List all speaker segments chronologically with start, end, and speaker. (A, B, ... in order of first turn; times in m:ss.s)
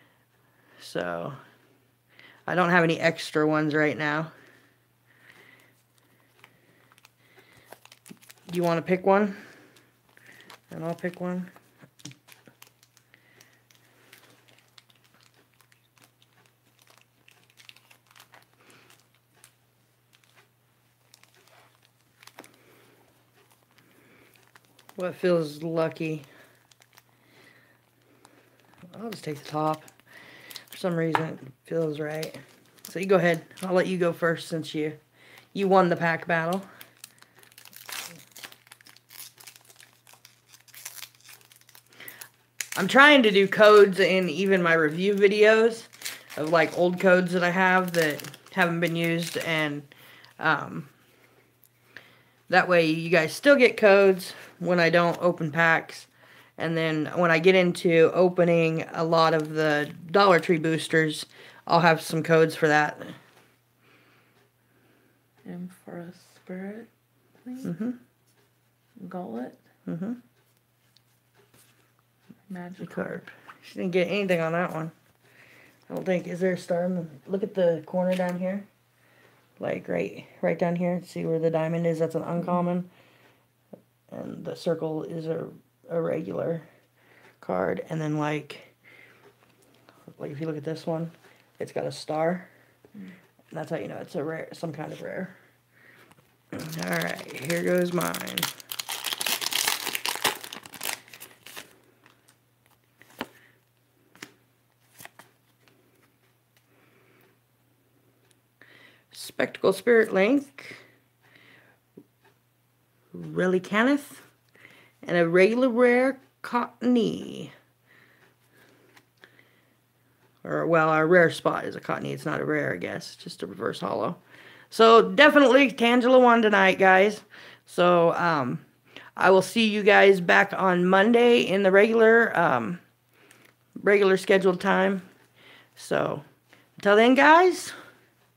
0:00.8-0:01.4 A
0:02.5-0:04.3 A
0:08.5-0:09.4 A
0:10.7-0:11.5 A
0:25.0-0:26.3 A
0:28.9-0:29.8 A
0:30.7-0:35.0 A
0:35.5-0:36.6 A
0:42.8-0:50.9 A
0:52.5-1:03.2 A
1:05.4-1:06.9 B
1:07.4-1:07.7 B
1:07.6-1:08.0 A
1:09.0-1:09.6 B
1:09.9-1:10.2 A
1:12.5-1:13.3 B
1:12.8-1:14.9 A
1:15.9-1:18.7 A
1:19.6-1:22.9 A
1:24.1-1:26.7 A
1:27.4-1:28.7 A
1:30.1-1:32.5 A
1:33.5-1:35.3 A
1:36.5-1:38.5 A
1:49.1-1:50.8 A
1:53.1-1:54.2 A
1:55.0-1:57.5 A
2:00.4-2:08.6 A
2:09.2-2:12.8 A
2:13.8-2:15.0 A
2:15.7-2:16.2 A
2:16.8-2:17.7 A